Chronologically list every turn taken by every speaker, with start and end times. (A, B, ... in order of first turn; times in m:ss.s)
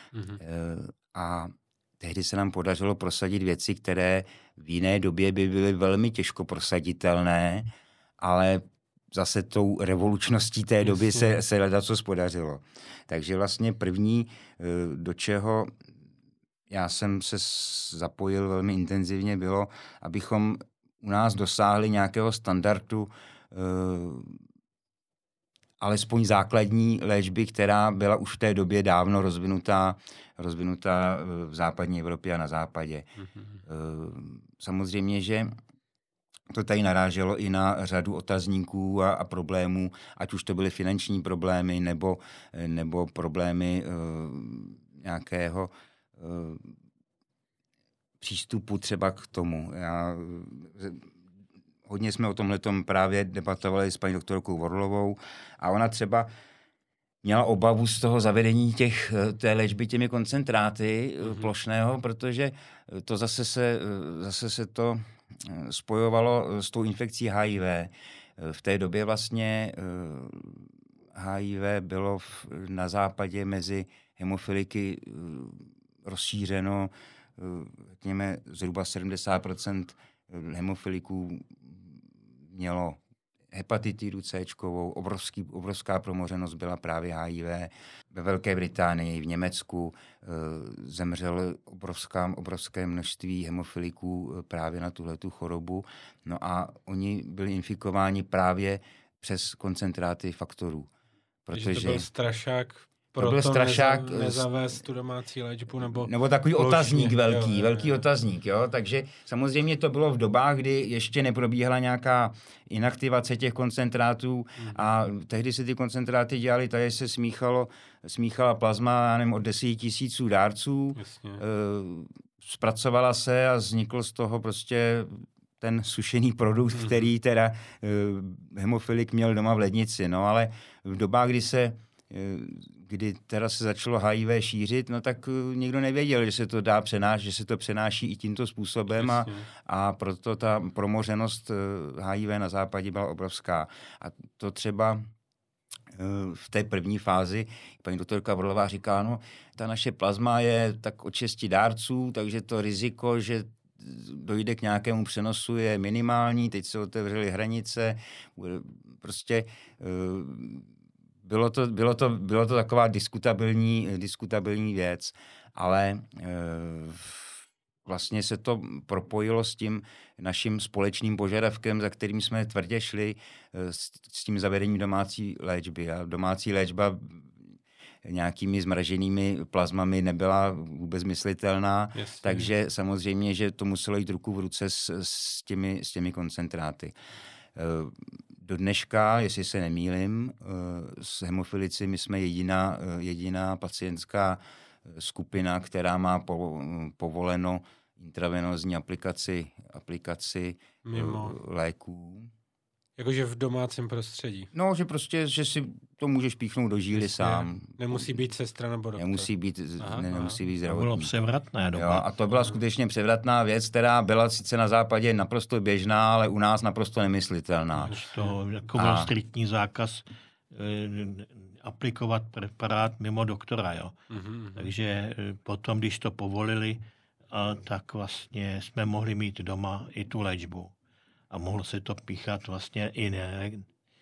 0:00.1-0:00.4 A
0:00.4-0:15.7 B
0:10.8-0:11.3 A
0:16.7-0:24.4 B
0:25.8-0:33.1 B
0:33.2-0:33.6 A
0:33.6-0:35.5 B
0:36.5-0:46.7 B
0:48.2-0:51.1 B
0:51.8-0:56.3 B
0:57.2-1:23.0 B
1:23.5-1:40.9 B
1:41.4-1:42.1 B
1:41.5-1:48.0 A
1:43.2-1:44.5 B
1:45.8-2:25.0 B
2:01.0-2:01.4 A
2:06.8-2:07.1 A
2:19.0-2:19.5 A
2:25.9-2:40.7 B
2:41.2-3:06.9 B
3:01.9-3:02.5 A
3:07.5-3:22.3 B
3:20.8-3:21.4 A
3:23.0-3:24.5 A
3:24.5-3:28.2 B
3:27.0-3:29.3 A
3:29.0-3:31.1 B
3:29.8-3:30.4 A
3:30.6-3:32.1 C
3:31.7-3:38.0 B
3:37.8-3:44.0 C
3:37.9-3:38.3 A
3:38.7-3:39.1 B
3:44.1-3:44.7 A
3:44.6-3:50.7 C
3:51.3-3:53.7 C